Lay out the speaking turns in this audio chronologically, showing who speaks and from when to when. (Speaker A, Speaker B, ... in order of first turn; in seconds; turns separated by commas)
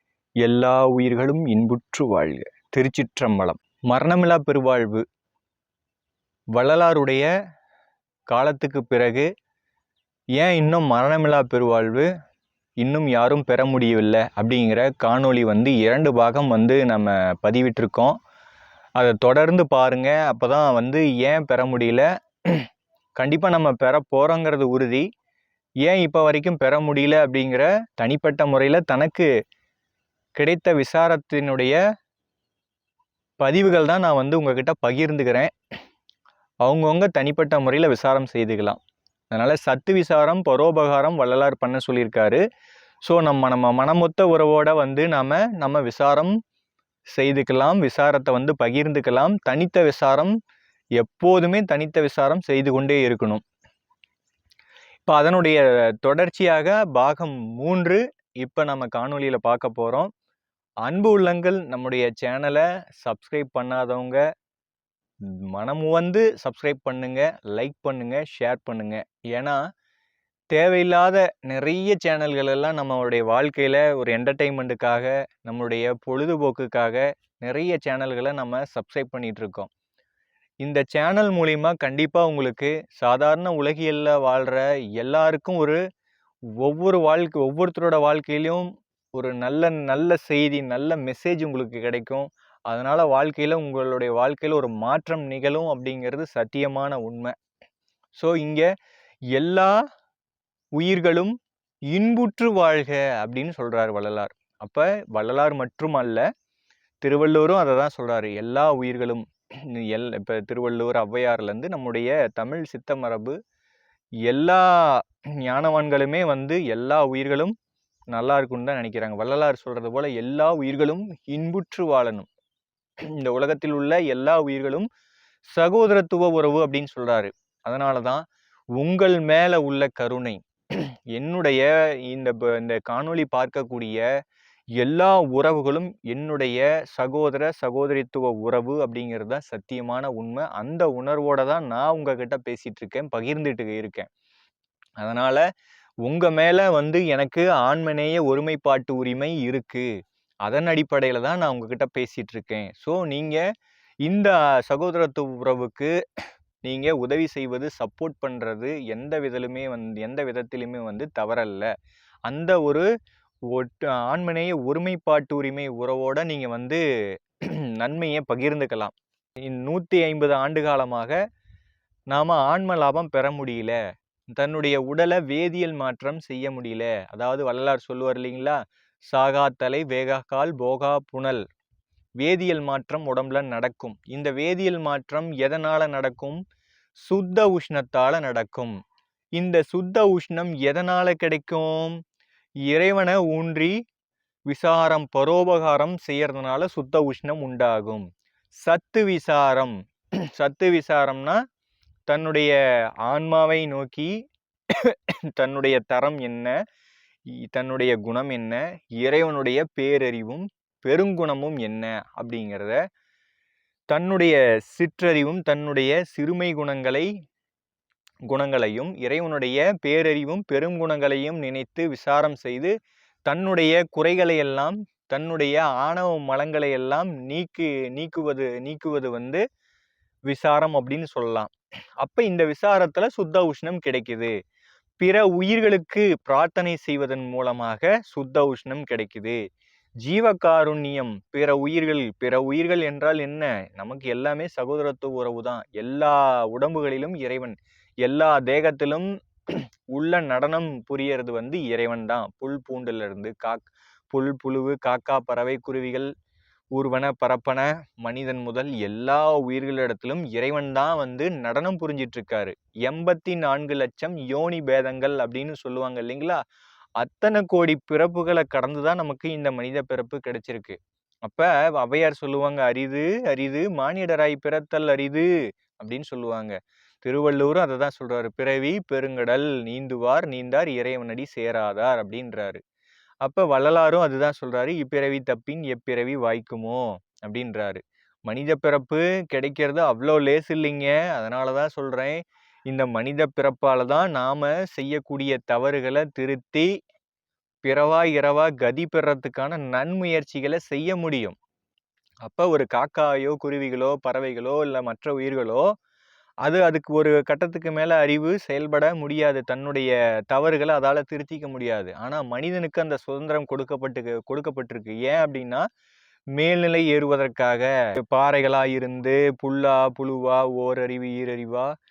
Speaker A: 0.4-5.0, Speaker A: 6.5-7.2, Speaker A: 8.3-9.3, Speaker A: 10.4-12.1, Speaker A: 12.8-18.1, Speaker A: 19.0-22.6, Speaker A: 23.2-25.0, Speaker A: 25.8-29.3, Speaker A: 30.4-31.8, Speaker A: 33.4-35.5, Speaker A: 36.6-38.8, Speaker A: 39.3-42.4, Speaker A: 43.0-46.3, Speaker A: 47.1-50.3, Speaker A: 51.0-53.4, Speaker A: 55.0-60.1, Speaker A: 60.8-64.2, Speaker A: 65.5-69.6, Speaker A: 70.5-79.7, Speaker A: 80.6-85.8, Speaker A: 86.6-97.3, Speaker A: 98.2-98.7, Speaker A: 99.3-99.8, Speaker A: 100.8-101.3, Speaker A: 101.9-106.2, Speaker A: 107.0-113.3, Speaker A: 114.3-117.5, Speaker A: 118.1-122.3, Speaker A: 123.2-124.9, Speaker A: 125.5-128.2, Speaker A: 128.8-130.4, Speaker A: 131.1-134.0, Speaker A: 134.8-144.1, Speaker A: 145.0-145.4, Speaker A: 146.0-149.9, Speaker A: 150.4-153.4, Speaker A: 154.0-155.9, Speaker A: 156.6-161.7, Speaker A: 162.3-162.8, Speaker A: 163.5-166.8, Speaker A: 167.5-168.9, Speaker A: 169.4-171.2, Speaker A: 172.1-173.8, Speaker A: 174.3-178.6, Speaker A: 179.1-181.4, Speaker A: 182.2-186.4, Speaker A: 187.0-188.7, Speaker A: 189.4-192.0, Speaker A: 192.7-193.7, Speaker A: 194.5-198.1, Speaker A: 198.6-199.7, Speaker A: 200.3-201.4, Speaker A: 202.1-202.5, Speaker A: 203.1-204.1, Speaker A: 204.7-206.5, Speaker A: 207.5-212.8, Speaker A: 213.9-217.1, Speaker A: 218.3-222.7, Speaker A: 223.3-229.4, Speaker A: 230.3-234.3, Speaker A: 235.0-239.4, Speaker A: 240.0-256.1, Speaker A: 256.7-266.4, Speaker A: 267.0-275.3, Speaker A: 275.8-282.6, Speaker A: 283.2-296.7, Speaker A: 297.6-301.4, Speaker A: 302.2-305.6, Speaker A: 306.4-315.6, Speaker A: 316.4-321.7